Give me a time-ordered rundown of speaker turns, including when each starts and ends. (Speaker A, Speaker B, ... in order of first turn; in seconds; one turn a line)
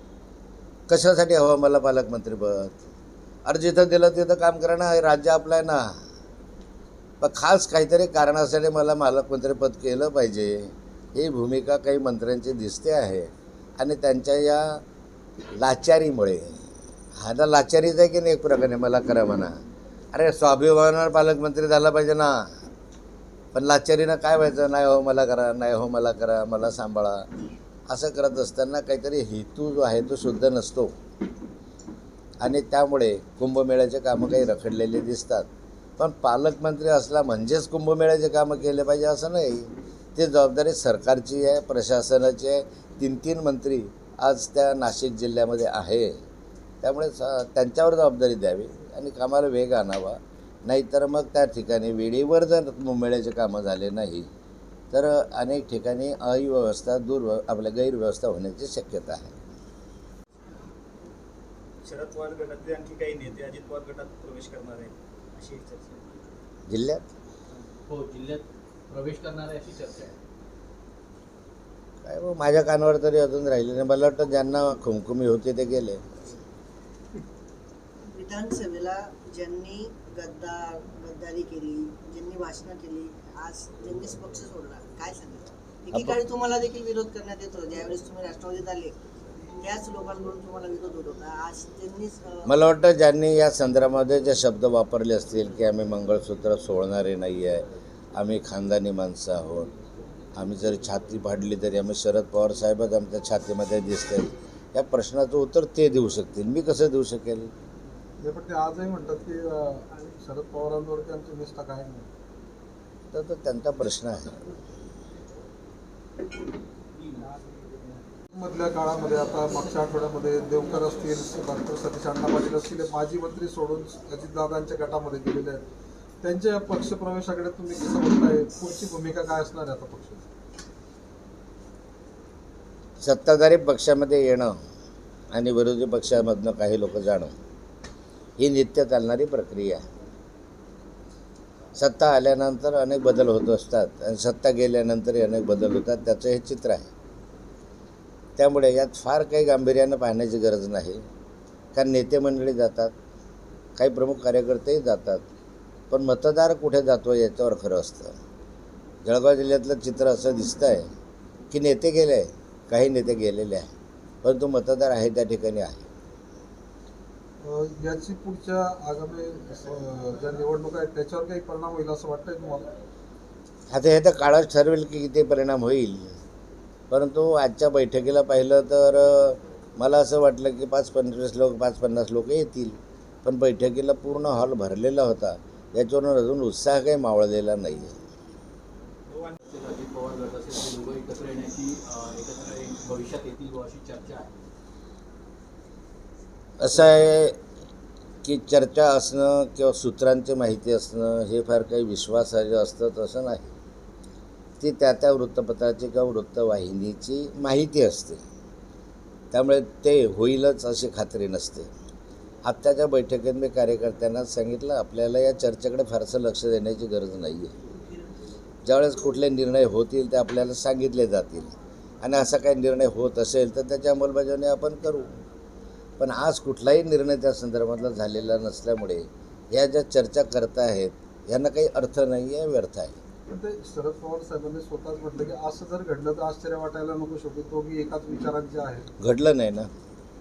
Speaker A: 0.9-2.8
Speaker A: 3.5-5.9
Speaker A: 7.2-14.8
Speaker A: 15.6-19.6
Speaker A: 20.1-22.5
Speaker A: 23.5-27.3
Speaker A: 27.9-30.9
Speaker A: 32.4-35.5
Speaker A: 36.0-46.1
Speaker A: 46.8-54.3
Speaker A: 54.9-59.4
Speaker B: 61.8-66.1
Speaker A: 66.7-67.0
Speaker C: 67.9-70.1
Speaker A: 72.0-76.0
Speaker D: 78.1-89.0
Speaker D: 89.6-92.5
Speaker A: 92.5-99.7
Speaker A: 100.3-107.5
Speaker E: 108.2-112.1
Speaker A: 113.1-114.5
Speaker E: 118.3-125.6
Speaker E: 126.2-130.3
Speaker A: 133.0-134.6
Speaker A: 135.3-137.3
Speaker A: 138.4-139.8
Speaker A: 141.8-146.9
Speaker A: 148.4-151.0
Speaker A: 151.7-152.9
Speaker A: 153.8-155.2
Speaker A: 155.9-158.1
Speaker A: 159.0-160.9
Speaker A: 161.5-163.7
Speaker A: 164.2-165.9
Speaker E: 167.4-172.7
Speaker A: 173.7-176.1
Speaker A: 176.9-188.0
Speaker B: 189.1-189.4
Speaker C: 189.4-194.3
Speaker A: 196.6-197.4
Speaker A: 198.2-203.5
Speaker A: 204.6-208.2
Speaker A: 209.3-211.7
Speaker A: 212.4-217.6
Speaker A: 218.7-225.1
Speaker A: 226.0-233.0
Speaker E: 233.3-238.9
Speaker A: 239.0-239.7